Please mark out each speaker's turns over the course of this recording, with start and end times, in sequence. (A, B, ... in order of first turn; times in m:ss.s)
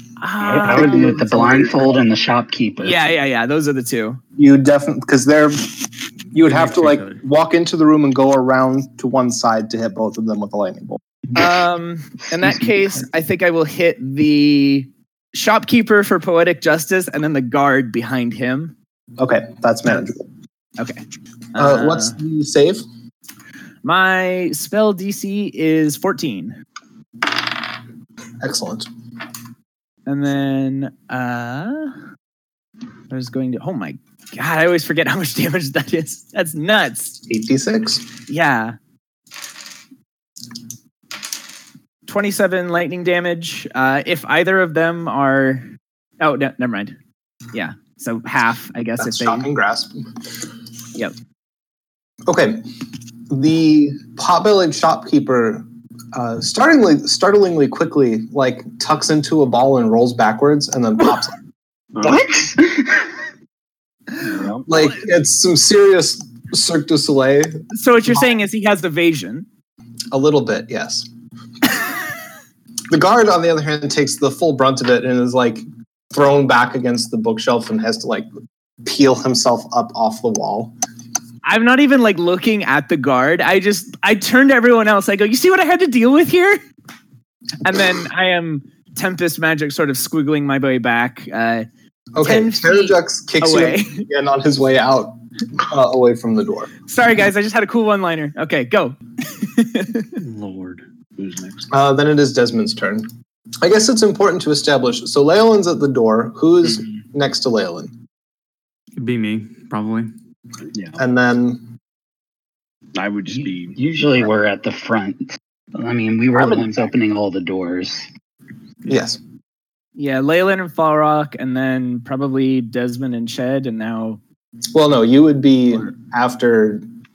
0:00.2-0:01.3 A
0:00.4-0:03.0 B
0:00.7-0:02.0 C
0:02.8-0:04.2 A
0:04.4-0:11.0 C
0:06.4-0:07.2 D
0:11.3-0:18.7 A
0:12.3-0:13.0 B
0:19.2-0:20.2 C
0:21.5-0:22.1 A
0:21.6-0:22.8 C
0:23.8-0:26.6 A
0:28.4-0:28.9 C
0:30.0-0:31.9 A
0:33.1-0:37.2 A
0:37.3-0:38.0 C
0:38.3-0:38.8 A
0:42.1-0:45.6 A
0:46.2-0:46.9 A
0:47.5-0:49.5 A
0:49.0-0:50.0 C
0:52.3-0:52.6 C
0:53.3-1:01.4 C
1:01.9-1:02.3 E
1:02.0-1:03.1 B
1:04.2-1:04.6 E
1:04.7-1:07.6 C
1:07.7-1:09.4 A
1:10.1-1:11.1 C
1:12.9-1:18.3 C
1:18.8-1:20.7 C
1:21.4-1:26.6 A
1:27.6-1:31.7 A
1:32.1-1:36.7 C
1:32.2-1:34.0 A
1:36.9-1:40.1 A
1:40.2-1:40.8 D
1:41.2-1:41.6 E
1:41.7-1:43.1 C
1:43.6-1:47.9 C
1:49.0-1:50.1 D
1:50.7-1:51.0 E
1:51.0-1:51.6 C
1:52.9-1:53.8 E
1:53.4-1:58.1 B
1:56.4-1:56.7 E
1:58.9-1:59.2 C
2:00.0-2:04.2 A
2:04.7-2:06.8 C